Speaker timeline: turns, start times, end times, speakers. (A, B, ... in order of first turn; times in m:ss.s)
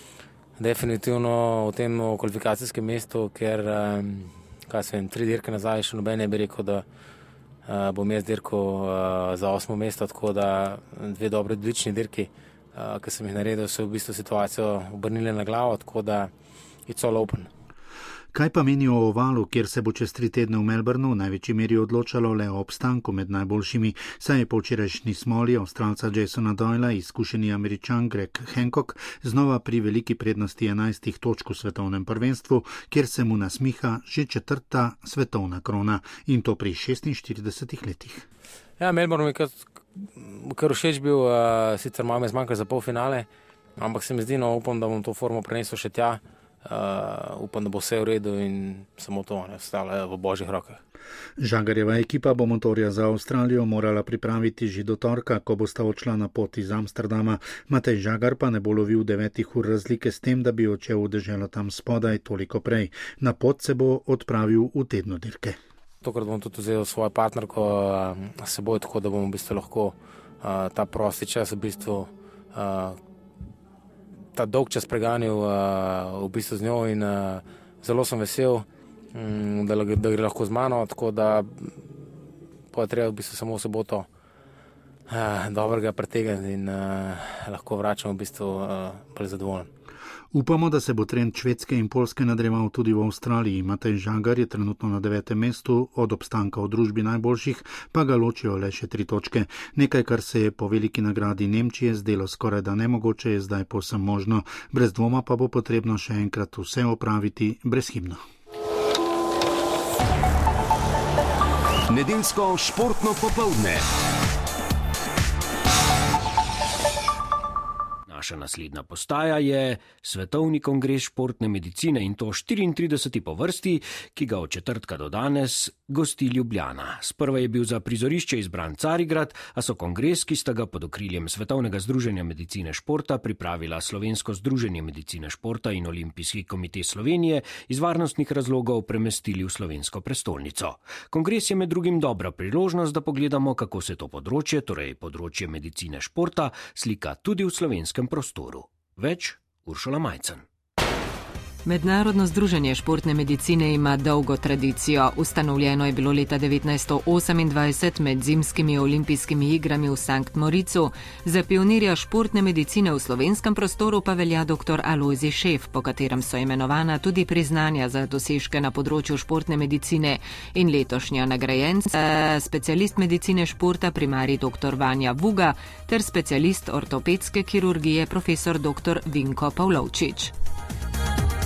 0:00.6-0:06.8 A
0:07.6-0:16.3 A
0:16.9-0:17.5 A
0:18.3-0:38.2 B
0:38.8-0:50.8 A
0:51.4-1:05.6 B
1:06.0-1:13.0 A
1:14.3-1:24.1 A
1:25.1-1:29.7 A
1:30.3-1:48.2 B
1:51.9-1:53.8 C
1:58.1-2:30.4 D
2:31.6-3:00.3 E